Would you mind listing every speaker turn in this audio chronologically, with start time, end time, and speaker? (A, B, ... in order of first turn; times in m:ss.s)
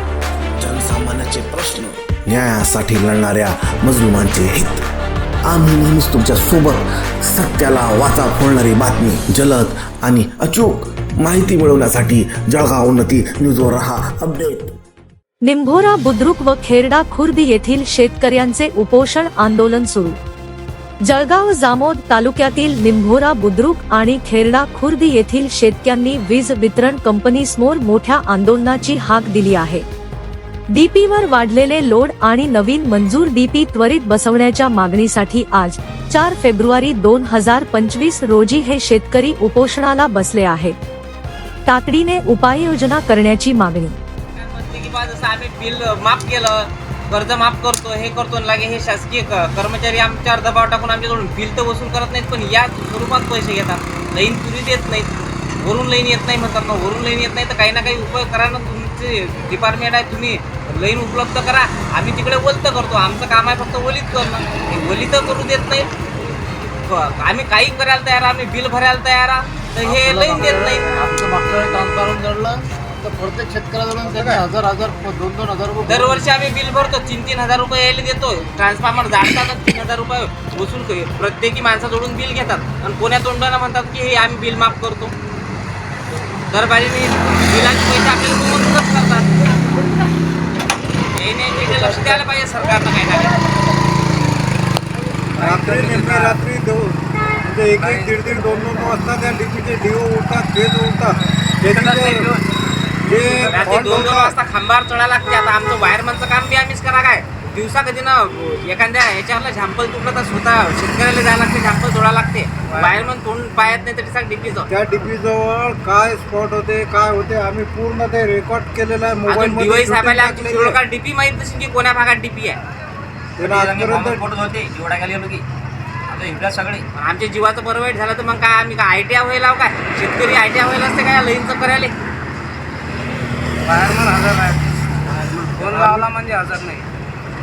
0:00.6-0:04.8 A
0:05.4-0:14.8 A
0:15.4-0:20.2 B
0:21.0-0:29.8 B
0:30.7-0:40.8 B
0:41.6-0:44.0 B
0:44.4-1:05.9 C
1:06.8-1:11.1 C
1:09.8-1:16.2 D
1:14.1-1:14.4 E
1:15.9-1:25.1 C
1:26.5-1:29.6 C
1:31.1-1:33.4 C
1:35.4-1:36.4 F
1:35.4-1:42.4 E
1:37.8-1:38.1 F
1:41.7-1:42.4 F
1:43.0-1:44.4 E
1:43.1-1:44.0 F
1:43.5-1:54.7 C
1:54.7-2:00.8 E
1:59.3-2:02.6 C
2:03.4-2:04.3 E
2:03.4-2:05.4 F
2:06.1-2:06.9 F
2:06.9-2:11.9 C
2:13.6-2:16.9 F
2:15.6-2:16.1 E